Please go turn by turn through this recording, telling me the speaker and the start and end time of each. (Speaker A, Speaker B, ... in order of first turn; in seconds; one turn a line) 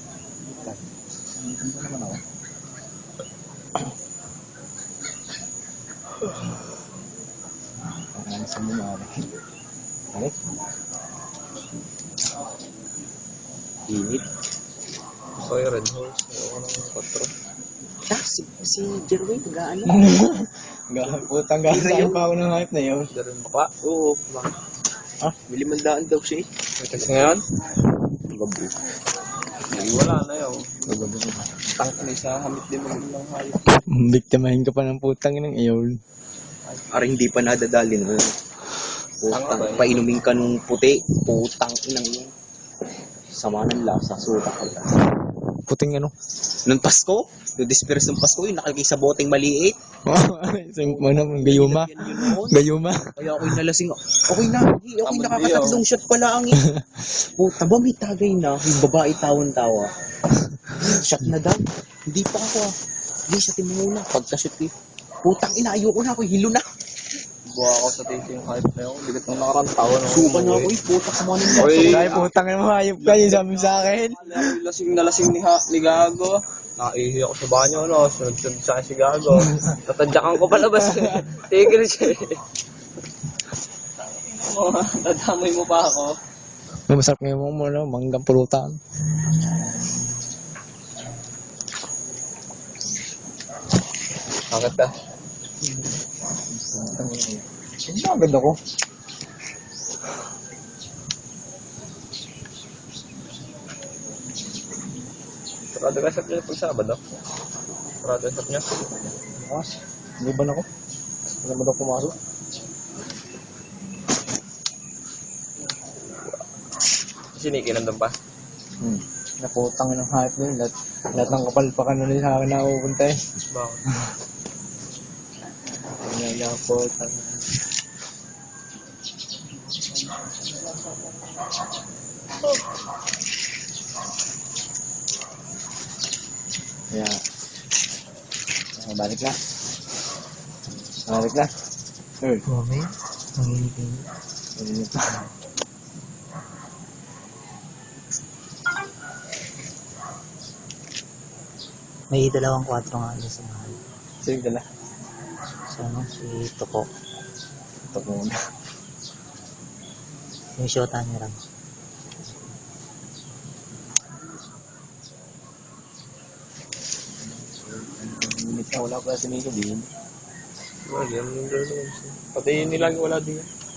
Speaker A: 0.5-0.8
Speaker A: 1.4-2.2
Speaker A: 8.1-9.1
Speaker B: 13.8-14.2
Speaker C: 15.4-17.3
Speaker B: 18.1-20.1
Speaker A: 19.9-23.1
Speaker B: 21.0-22.2
Speaker C: 23.1-23.7
Speaker B: 23.8-24.5
Speaker B: 25.4-27.1
Speaker C: 26.8-27.4
Speaker B: 28.2-28.8
Speaker C: 29.7-30.7
Speaker A: 30.9-31.6
Speaker C: 31.7-33.8
Speaker A: 33.7-36.0
Speaker B: 36.9-38.3
Speaker B: 39.2-42.3
Speaker C: 39.3-40.0
Speaker B: 43.3-45.0
Speaker A: 45.6-46.1
Speaker B: 46.6-49.8
Speaker A: 50.0-53.5
Speaker B: 50.8-52.6
Speaker B: 53.2-56.6
Speaker C: 55.0-55.8
Speaker A: 56.5-57.0
Speaker B: 57.1-59.9
Speaker B: 60.7-62.7
Speaker B: 63.3-64.7
Speaker B: 65.2-66.6
Speaker C: 67.5-70.8
Speaker B: 70.0-72.2
Speaker C: 71.5-72.3
Speaker A: 71.7-74.5
Speaker C: 73.0-82.4
Speaker A: 80.8-81.1
Speaker C: 84.1-86.2
Speaker A: 86.9-88.8
Speaker C: 94.5-94.9
Speaker A: 95.6-96.0
Speaker A: 96.5-98.6
Speaker C: 105.7-107.0
Speaker C: 108.0-108.7
Speaker A: 109.3-110.7
Speaker A: 111.4-112.1
Speaker C: 117.3-118.2
Speaker A: 118.8-123.2
Speaker C: 123.5-123.8
Speaker A: 126.0-127.5
Speaker A: 136.9-137.2
Speaker A: 138.8-139.4
Speaker A: 141.1-141.5
Speaker D: 142.5-144.1
Speaker A: 144.6-145.3
Speaker D: 152.1-153.8
Speaker A: 154.2-154.7
Speaker D: 155.7-156.9
Speaker A: 157.9-158.3
Speaker D: 160.6-161.4
Speaker A: 167.6-169.9
Speaker C: 170.8-173.5